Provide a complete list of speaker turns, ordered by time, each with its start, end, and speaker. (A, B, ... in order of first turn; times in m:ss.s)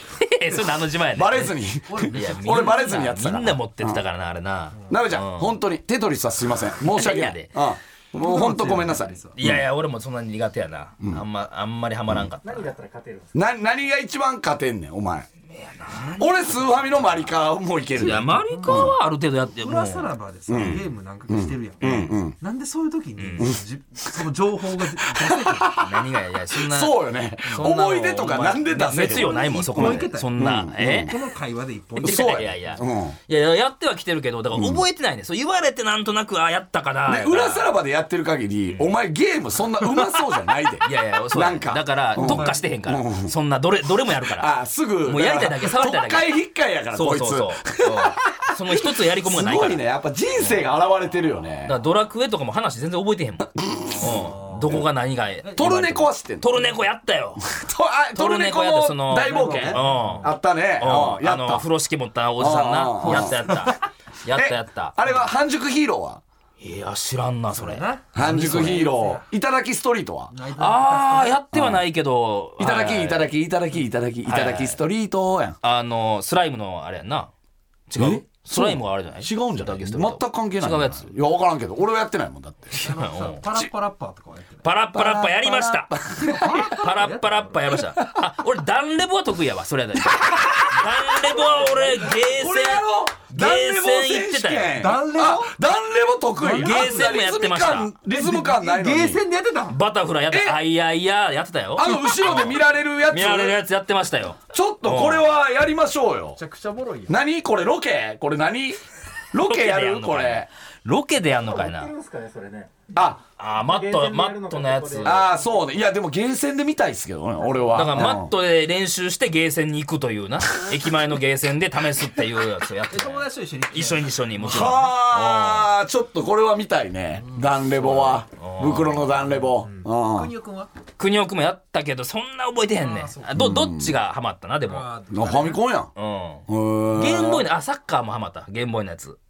0:00.2-0:05.6 A
0:01.1-0:04.0 B
0:01.9-0:03.0 C
0:04.9-0:09.6 B
0:06.8-0:07.6 A
0:08.2-0:09.4 C
0:09.4-0:12.8 A
0:12.5-0:13.3 D
0:13.3-0:15.3 B
0:15.5-0:17.2 A
0:15.9-0:16.8 C
0:16.2-0:19.0 B
0:18.0-0:19.0 C
0:18.0-0:20.8 A
0:19.6-0:25.8 C
0:20.5-0:22.4 B
0:21.8-0:22.1 A
0:23.2-0:23.5 A
0:25.0-0:31.2 B
0:25.8-0:31.1 A
0:27.5-0:32.8 C
0:32.0-0:33.2 B
0:32.0-0:37.7 A
0:34.5-0:34.8 B
0:37.1-0:43.3 B
0:38.7-0:39.0 A
0:40.8-0:44.5 A
0:42.2-0:42.6 C
0:44.1-0:51.8 B
0:45.0-0:46.3 A
0:46.9-0:49.8 A
0:50.4-0:50.6 A
0:51.6-0:57.4 A
0:53.6-0:54.8 B
0:54.0-0:54.9 C
0:55.4-0:56.0 C
0:55.6-0:56.6 B
0:57.4-1:01.7 B
0:58.1-1:05.0 A
0:59.1-1:00.3 C
1:02.4-1:03.5 B
1:03.0-1:03.6 C
1:04.3-1:06.2 B
1:06.6-1:08.9 A
1:07.5-1:09.3 C
1:08.1-1:10.3 B
1:10.3-1:11.4 C
1:10.6-1:13.3 A
1:11.5-1:11.8 B
1:12.6-1:15.6 B
1:14.2-1:14.8 A
1:15.6-1:17.3 A
1:17.9-1:21.1 A
1:18.0-1:22.8 B
1:22.7-1:24.7 C
1:22.8-1:23.4 A
1:24.6-1:25.9 A
1:24.9-1:26.8 B
1:26.1-1:27.8 C
1:26.5-1:34.8 A
1:30.0-1:31.4 B
1:31.4-1:32.0 C
1:32.0-1:39.2 B
1:34.8-1:35.5 C
1:36.4-1:37.3 C
1:36.5-1:37.9 A
1:38.0-1:39.8 C
1:39.7-1:45.3 A
1:40.3-1:40.6 B
1:41.8-1:43.6 B
1:44.5-1:46.4 B
1:46.4-1:47.2 C
1:47.1-1:48.8 B
1:49.3-1:50.5 B
1:49.4-1:51.9 A
1:51.4-1:52.8 D
1:52.9-1:53.2 B
1:53.4-1:55.3 A
1:53.6-1:55.3 D
1:55.0-1:58.3 B
1:57.7-2:05.7 A
2:02.9-2:05.0 C
2:04.4-2:10.3 B
2:07.2-2:08.0 C
2:07.8-2:09.3 A
2:09.6-2:10.7 C
2:11.0-2:14.9 A
2:12.8-2:13.4 C
2:13.3-2:14.0 B
2:14.6-2:15.6 C
2:15.1-2:15.9 B
2:16.0-2:19.2 A
2:16.5-2:17.5 B